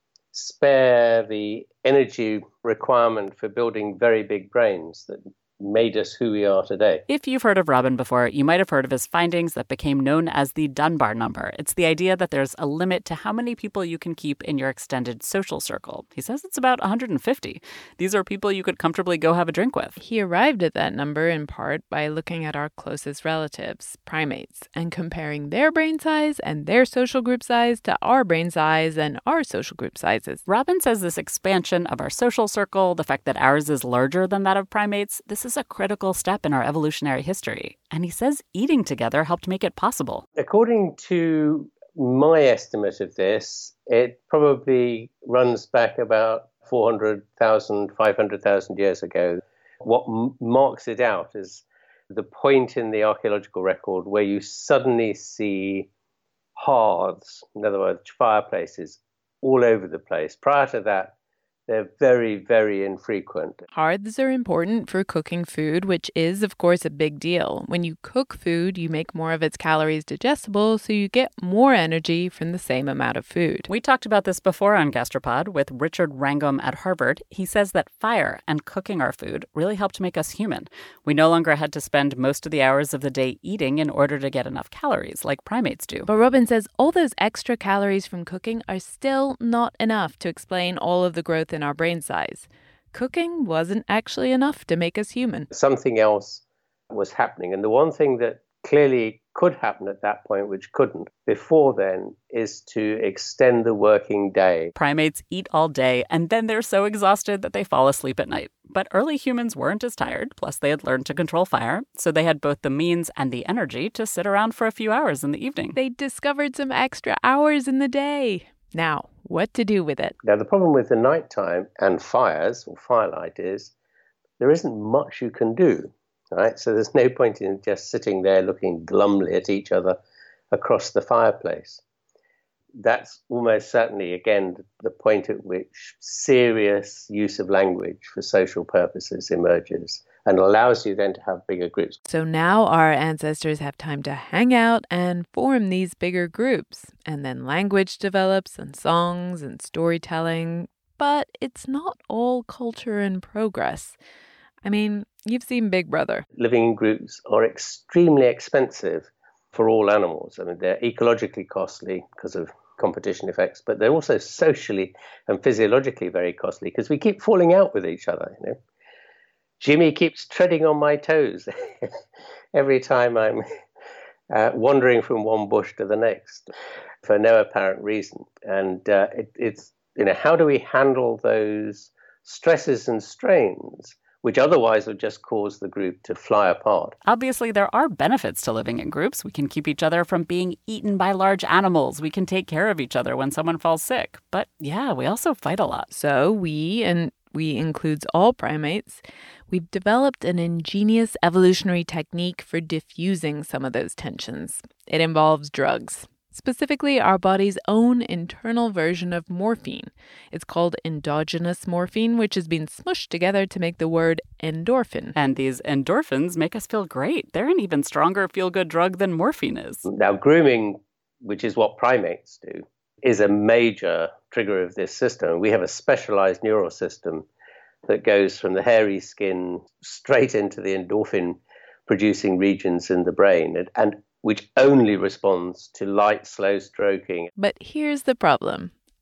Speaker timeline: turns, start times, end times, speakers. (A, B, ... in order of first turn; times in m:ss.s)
0:00.3-0:07.0 A
0:07.1-0:20.0 B
0:20.0-0:30.4 C
0:30.5-0:40.2 B
0:40.4-0:55.9 A
0:56.6-1:01.1 A
1:01.7-1:03.6 A
1:03.7-1:13.7 C
1:13.7-1:26.1 B
1:26.1-1:35.5 C
1:35.5-1:44.7 A
1:44.8-1:55.8 B
1:55.8-2:00.1 C
2:00.2-2:03.7 A
2:04.4-2:10.0 A
2:10.5-2:11.8 A
2:12.8-2:22.0 A
2:22.1-2:34.0 C
2:34.6-2:36.2 C
2:36.4-2:48.6 A
2:49.6-2:51.9 A
2:52.5-2:53.4 A
2:54.3-2:56.5 A
2:57.0-3:07.0 A
3:07.0-3:15.9 B
3:15.9-3:35.1 C
3:35.2-3:39.9 B
3:39.9-3:47.3 A
3:47.9-3:57.3 A
3:57.4-3:58.7 C